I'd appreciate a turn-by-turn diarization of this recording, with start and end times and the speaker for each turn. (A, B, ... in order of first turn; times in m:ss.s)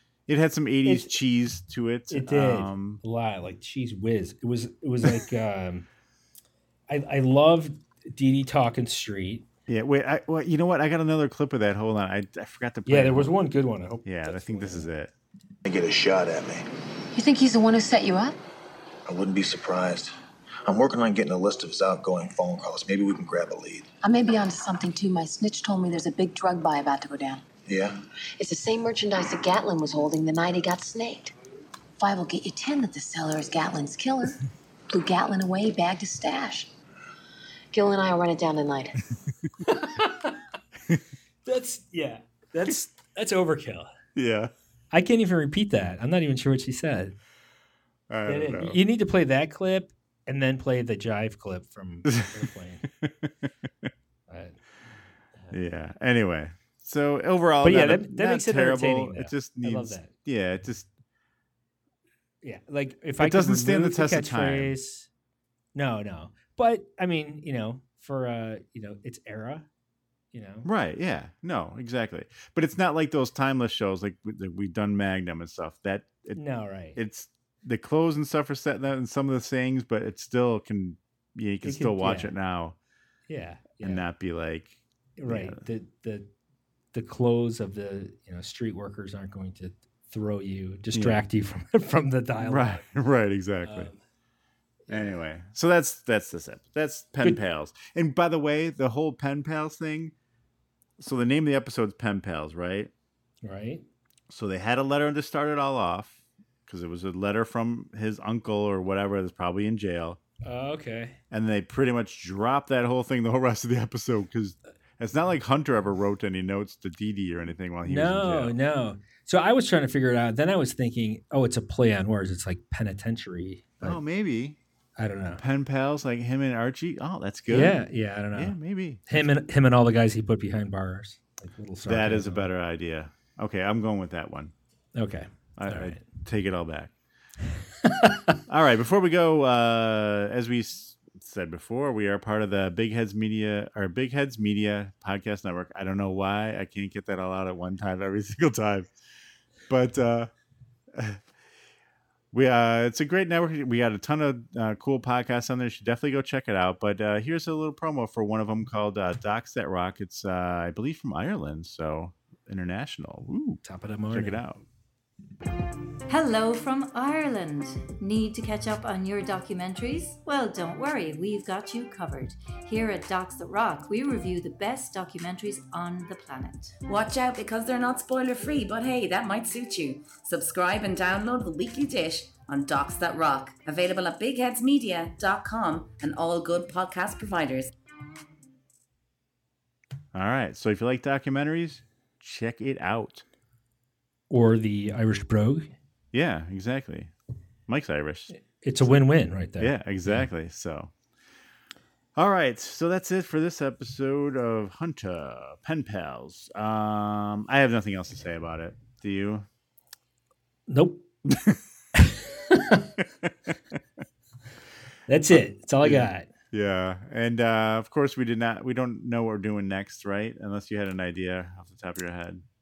0:00.3-0:03.0 A
0:00.8-0:01.1 B
0:02.1-0:05.9 B
0:06.9-0:09.4 B
0:09.7-0:13.3 A
0:12.8-0:14.9 B
0:14.0-0:15.1 A
0:15.6-0:16.6 C
0:17.1-0:18.4 D
0:19.1-0:20.1 C
0:20.7-0:23.9 C
0:24.0-0:27.4 D
0:28.4-0:31.3 D
0:32.0-0:34.4 D
0:34.9-0:36.7 D
0:37.7-0:39.0 D
0:39.6-0:40.4 B
0:41.4-0:43.9 B
0:44.1-0:44.5 A
0:44.9-0:47.2 B
0:48.1-0:48.8 A
0:48.3-0:52.8 B
0:52.1-0:52.4 A
0:53.0-0:53.3 A
0:54.3-0:54.6 B
0:55.5-1:00.9 A
0:57.6-1:00.1 B
1:02.4-1:05.1 B
1:03.2-1:04.8 A
1:05.7-1:09.7 B
1:10.3-1:10.7 B
1:10.6-1:16.4 A
1:16.3-1:17.0 B
1:16.9-1:22.8 A
1:21.6-1:22.3 B
1:23.3-1:24.1 B
1:23.8-1:25.6 A
1:25.2-1:26.3 B
1:26.9-1:32.8 B
1:30.9-1:31.2 A
1:32.4-1:33.9 A
1:33.6-1:34.0 B
1:34.9-1:35.2 B
1:34.9-1:40.1 A
1:41.0-1:42.9 A
1:43.4-1:43.8 B
1:44.3-1:50.2 A
1:50.4-1:51.2 B
1:51.3-1:58.6 A
1:57.8-2:04.0 B
2:03.8-2:04.6 A
2:05.0-2:05.4 B
2:05.4-2:07.8 A
2:07.5-2:08.6 B
2:08.3-2:09.2 A
2:09.1-2:12.5 B
2:11.8-2:14.5 A
2:15.0-2:16.0 B
2:15.6-2:16.9 A
2:17.8-2:18.4 B
2:18.5-2:28.9 A
2:29.7-2:30.3 A
2:30.9-2:31.2 A
2:32.3-2:44.6 A
2:43.6-2:44.4 B
2:46.1-2:56.8 E
2:56.8-3:07.7 F
3:10.1-3:13.2 A
3:14.3-3:15.7 B
3:16.1-3:17.1 A
3:17.7-3:18.3 A
3:18.3-3:20.3 B
3:19.6-3:20.9 A
3:22.2-3:29.4 A
3:30.7-3:31.0 B
3:31.2-3:31.6 A
3:32.0-3:32.9 B
3:35.1-3:36.3 B
3:35.3-3:42.4 A